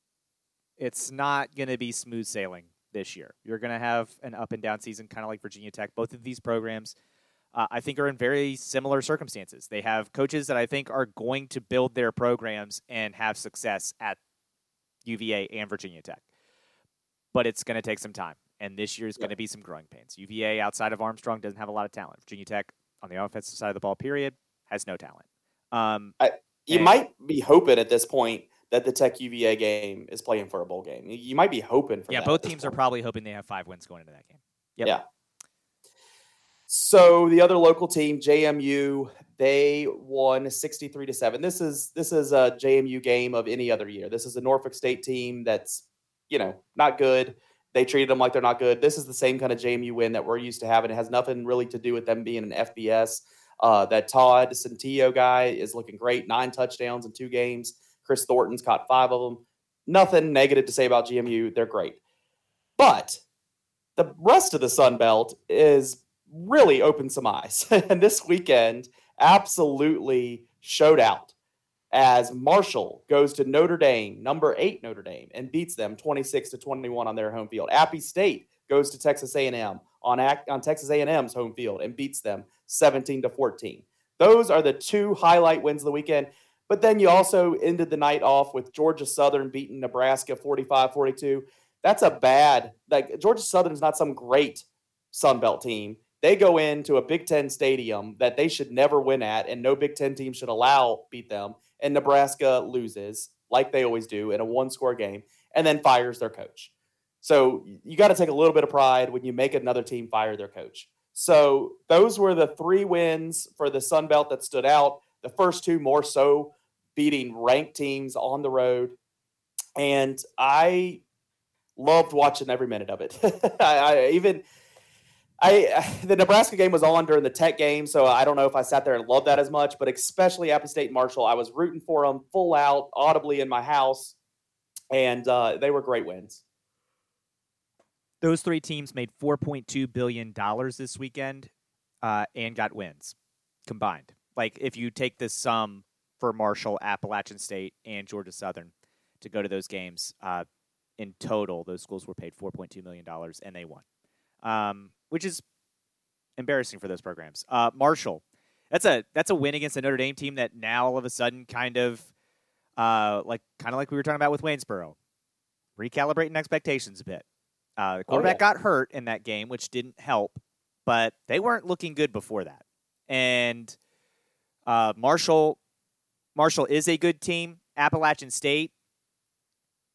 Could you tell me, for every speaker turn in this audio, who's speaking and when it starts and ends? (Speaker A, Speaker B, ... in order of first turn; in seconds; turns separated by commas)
Speaker A: 0.8-6.9, Speaker A: 7.5-14.2, Speaker A: 15.1-16.2, Speaker A: 17.3-26.1, Speaker B: 26.2-32.7, Speaker A: 26.7-26.9, Speaker A: 32.1-35.0, Speaker B: 36.7-62.0, Speaker B: 62.8-63.2, Speaker B: 64.0-71.3, Speaker B: 71.9-106.7, Speaker B: 107.2-119.0, Speaker B: 119.8-121.0, Speaker B: 121.8-124.4, Speaker B: 125.4-134.2, Speaker B: 134.9-136.4, Speaker A: 138.2-141.5, Speaker A: 142.0-143.2, Speaker A: 143.7-150.5, Speaker A: 151.0-153.8, Speaker A: 154.4-155.4, Speaker A: 156.4-162.1, Speaker A: 162.8-164.9, Speaker A: 165.8-167.2, Speaker A: 167.8-173.8, Speaker B: 168.1-168.4, Speaker A: 174.7-175.6, Speaker A: 176.3-178.7